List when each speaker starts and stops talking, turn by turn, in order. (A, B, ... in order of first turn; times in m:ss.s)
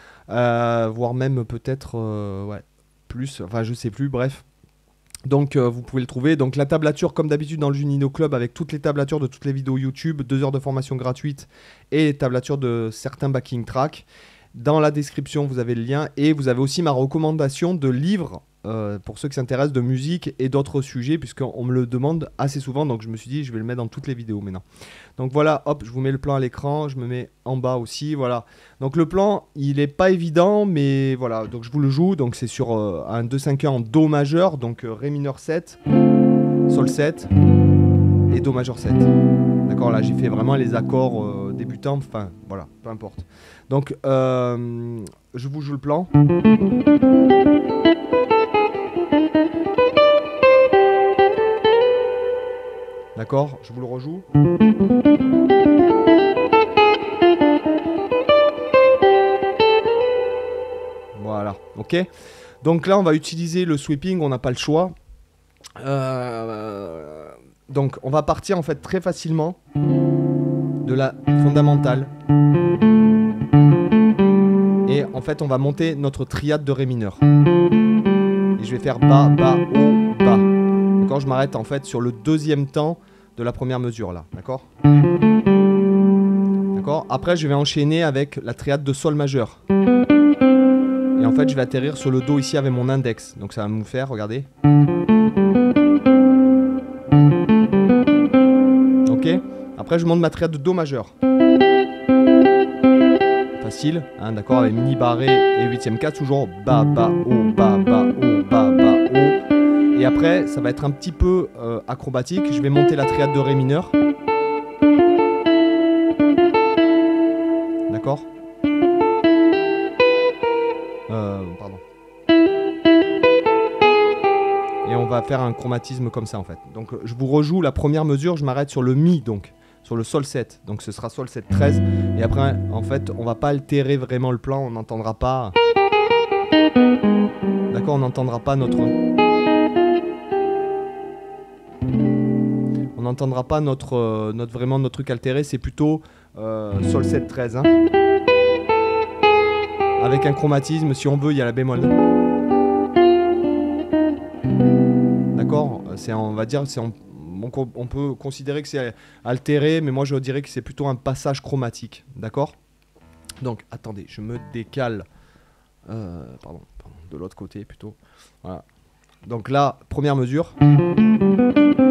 0:00.3-0:04.4 A
0:05.2-0:24.6 A
0:25.2-0:35.8 A
0:36.7-0:37.3 A
0:38.3-0:39.1 A
0:39.7-0:46.1 A
0:53.2-0:54.2 A
1:01.1-1:02.0 A
1:02.6-1:04.9 A
1:05.8-1:09.6 A
1:10.8-1:12.1 A
1:14.8-1:17.2 A
1:18.6-1:24.6 A
1:26.7-1:29.6 A
1:31.2-1:34.5 A
1:39.1-1:41.1 A
1:43.6-1:49.4 A
1:49.9-1:54.0 A
1:57.9-1:58.3 A
2:01.1-2:01.8 A
2:04.8-2:15.6 A
2:17.7-2:19.0 A
2:22.9-2:27.8 A
2:30.0-2:32.0 A
2:35.3-2:42.6 A
2:43.4-2:45.0 A
2:45.9-2:48.6 A
2:49.2-2:50.6 A